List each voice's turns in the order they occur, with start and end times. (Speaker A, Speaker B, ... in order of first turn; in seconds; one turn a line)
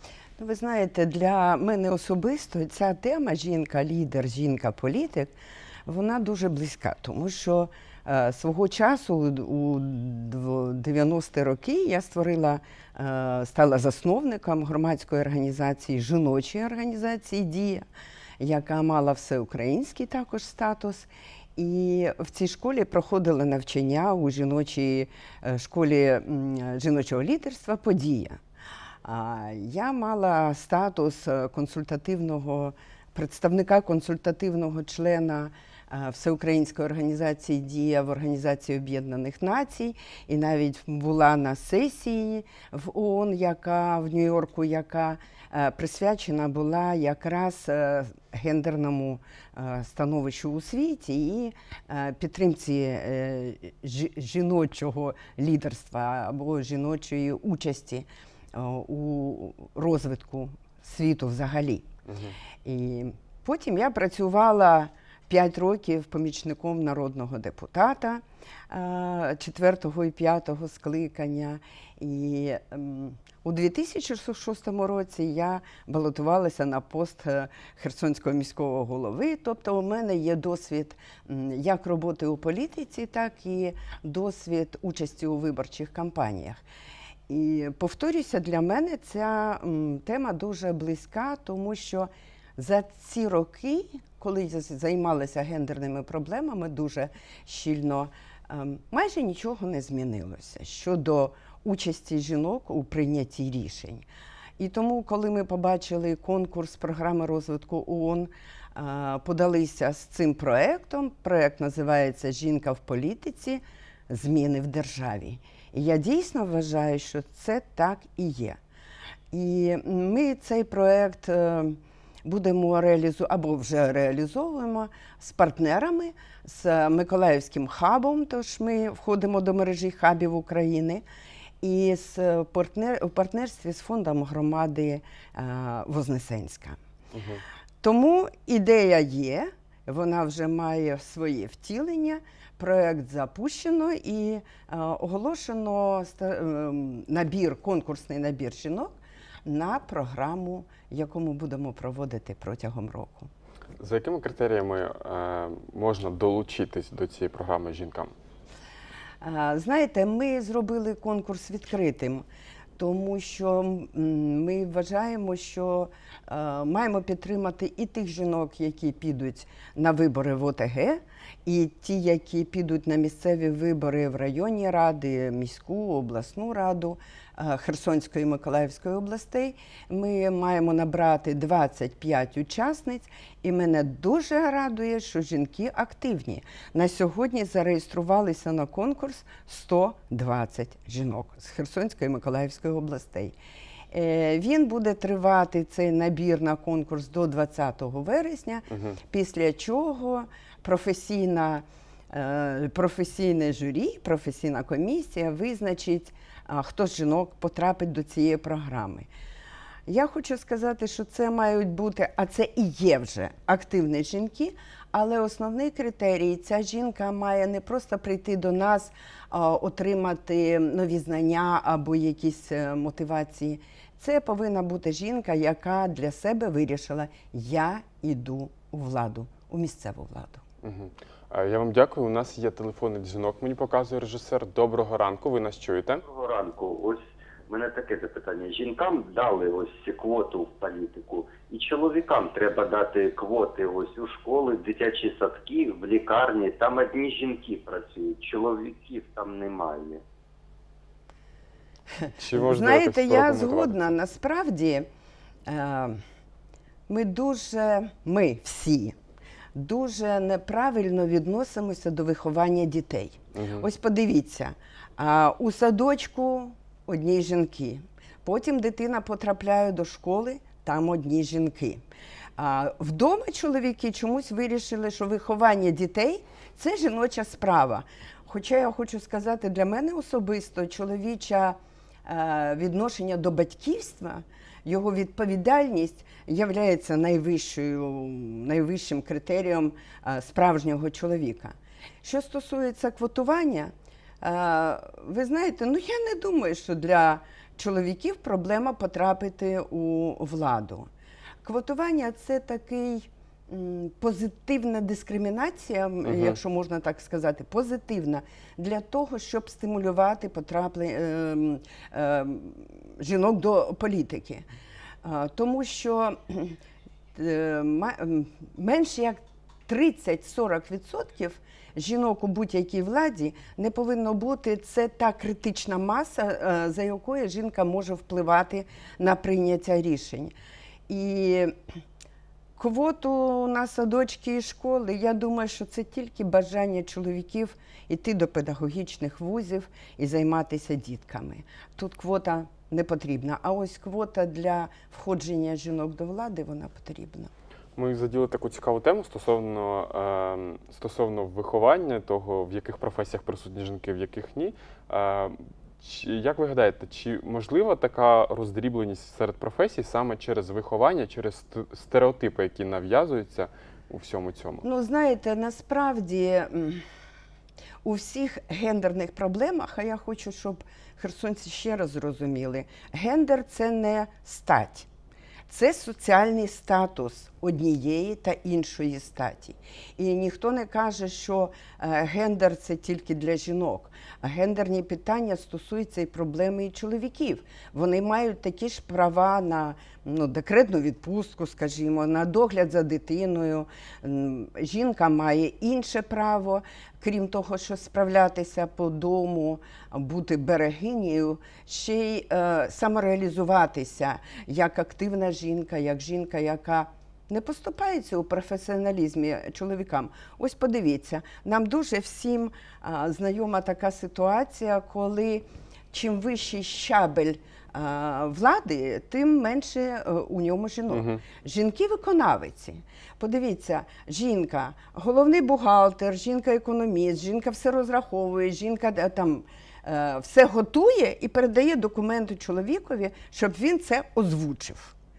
Speaker A: 0.4-5.3
Speaker A: 5.9-17.8
Speaker A: 18.4-28.4
Speaker A: 29.0-61.9
Speaker B: 62.1-62.3
Speaker A: 62.6-86.6
Speaker A: 87.3-104.0
Speaker A: 104.6-118.6
Speaker A: 119.3-131.0
Speaker A: 131.6-136.8
Speaker B: 137.1-137.4
Speaker A: 137.8-153.3
Speaker B: 153.8-158.1
Speaker A: 159.2-162.2
Speaker A: 162.8-193.3
Speaker A: 193.9-209.1
Speaker A: 209.9-230.4
Speaker B: 230.6-236.0
Speaker C: 236.1-250.0
Speaker A: 252.0-254.9
Speaker B: 252.2-253.7
Speaker A: 255.5-256.0
Speaker A: 256.9-258.9
Speaker A: 259.5-271.8
Speaker B: 263.3-263.6
Speaker A: 272.4-300.9
Speaker A: 301.4-314.4
Speaker B: 306.0-306.4
Speaker A: 315.0-316.6
Speaker A: 317.1-330.3
Speaker A: 330.9-331.5
Speaker A: 332.6-347.3
Speaker B: 347.8-364.6
Speaker A: 364.6-366.8
Speaker A: 367.8-374.9
Speaker A: 375.5-434.9
Speaker B: 420.9-421.2